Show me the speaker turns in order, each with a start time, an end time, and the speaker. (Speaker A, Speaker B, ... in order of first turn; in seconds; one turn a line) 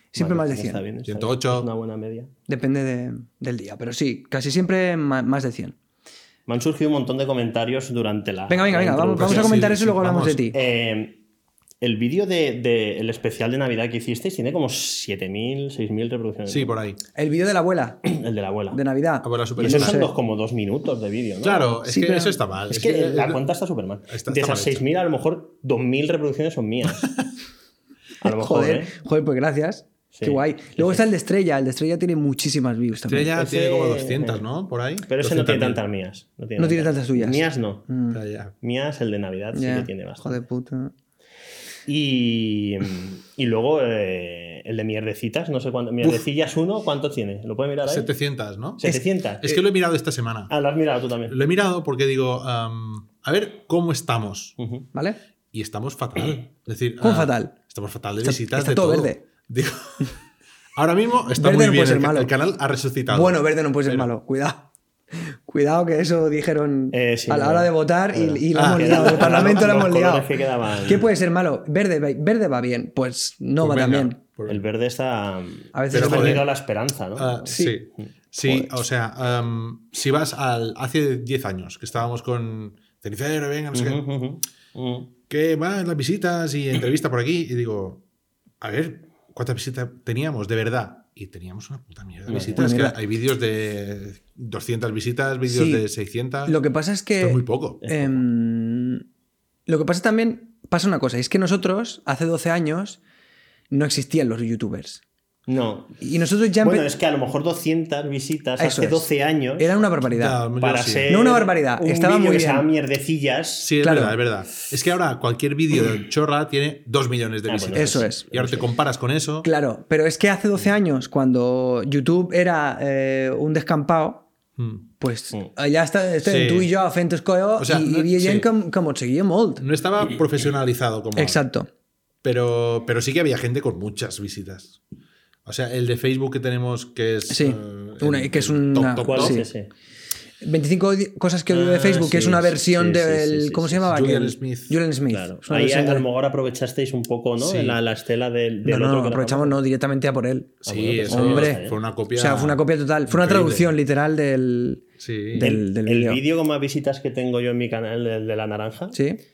Speaker A: 0.1-0.8
Speaker B: 0.2-2.3
Speaker C: 1.1-1.7
Speaker A: 2.5-5.8
Speaker B: 6.5-9.7
Speaker A: 8.5-10.6
Speaker C: 9.2-10.5
Speaker B: 10.5-11.2
Speaker B: 11.8-16.8
Speaker C: 16.5-17.0
Speaker A: 17.1-18.0
Speaker B: 18.1-18.8
Speaker A: 18.7-20.1
Speaker C: 19.2-20.0
Speaker B: 19.6-21.7
Speaker C: 21.4-23.4
Speaker A: 21.8-22.4
Speaker B: 22.7-27.1
Speaker C: 24.1-24.8
Speaker B: 28.2-28.9
Speaker A: 28.2-33.3
Speaker B: 30.1-31.0
Speaker C: 33.0-35.8
Speaker B: 33.3-34.5
Speaker B: 35.1-37.9
Speaker A: 36.6-38.2
Speaker C: 38.1-38.5
Speaker B: 38.6-40.4
Speaker A: 39.5-40.9
Speaker B: 41.9-48.1
Speaker C: 47.9-48.9
Speaker B: 48.8-49.6
Speaker C: 49.4-50.5
Speaker B: 50.5-51.4
Speaker C: 51.3-54.6
Speaker B: 54.6-54.9
Speaker A: 54.9-55.2
Speaker C: 55.5-60.2
Speaker A: 57.0-57.5
Speaker A: 58.2-59.2
Speaker C: 60.8-64.1
Speaker A: 61.4-62.3
Speaker A: 63.1-70.3
Speaker B: 66.9-71.1
Speaker C: 68.5-69.9
Speaker A: 70.8-74.2
Speaker C: 73.6-74.6
Speaker B: 74.5-77.7
Speaker A: 75.7-76.5
Speaker C: 75.9-76.5
Speaker C: 77.2-84.0
Speaker A: 77.5-77.8
Speaker A: 78.4-78.7
Speaker B: 83.7-85.1
Speaker C: 85.3-88.0
Speaker C: 88.6-96.6
Speaker B: 92.3-92.7
Speaker A: 92.4-93.0
Speaker A: 95.5-95.9
Speaker A: 96.5-99.0
Speaker C: 97.2-97.8
Speaker B: 97.8-98.2
Speaker A: 99.7-103.0
Speaker A: 103.7-105.0
Speaker B: 105.5-106.0
Speaker A: 106.0-106.9
Speaker B: 106.6-109.8
Speaker A: 108.6-110.4
Speaker C: 110.1-111.1
Speaker B: 110.6-113.7
Speaker A: 111.1-112.7
Speaker C: 113.6-119.5
Speaker A: 113.8-114.2
Speaker B: 117.5-118.7
Speaker A: 117.7-118.3
Speaker A: 119.4-124.3
Speaker C: 124.6-124.9
Speaker A: 125.0-129.6
Speaker C: 126.2-126.7
Speaker C: 127.6-128.5
Speaker C: 129.6-131.4
Speaker A: 131.2-131.7
Speaker C: 132.2-134.8
Speaker C: 135.4-139.4
Speaker A: 137.3-139.5
Speaker B: 139.0-139.7
Speaker A: 140.4-146.1
Speaker B: 141.5-143.9
Speaker C: 143.9-144.8
Speaker B: 145.1-149.6
Speaker C: 147.4-147.8
Speaker A: 148.7-150.6
Speaker C: 150.6-153.7
Speaker B: 150.7-151.8
Speaker A: 151.1-156.2
Speaker C: 155.0-155.5
Speaker B: 155.4-159.0
Speaker A: 158.9-159.2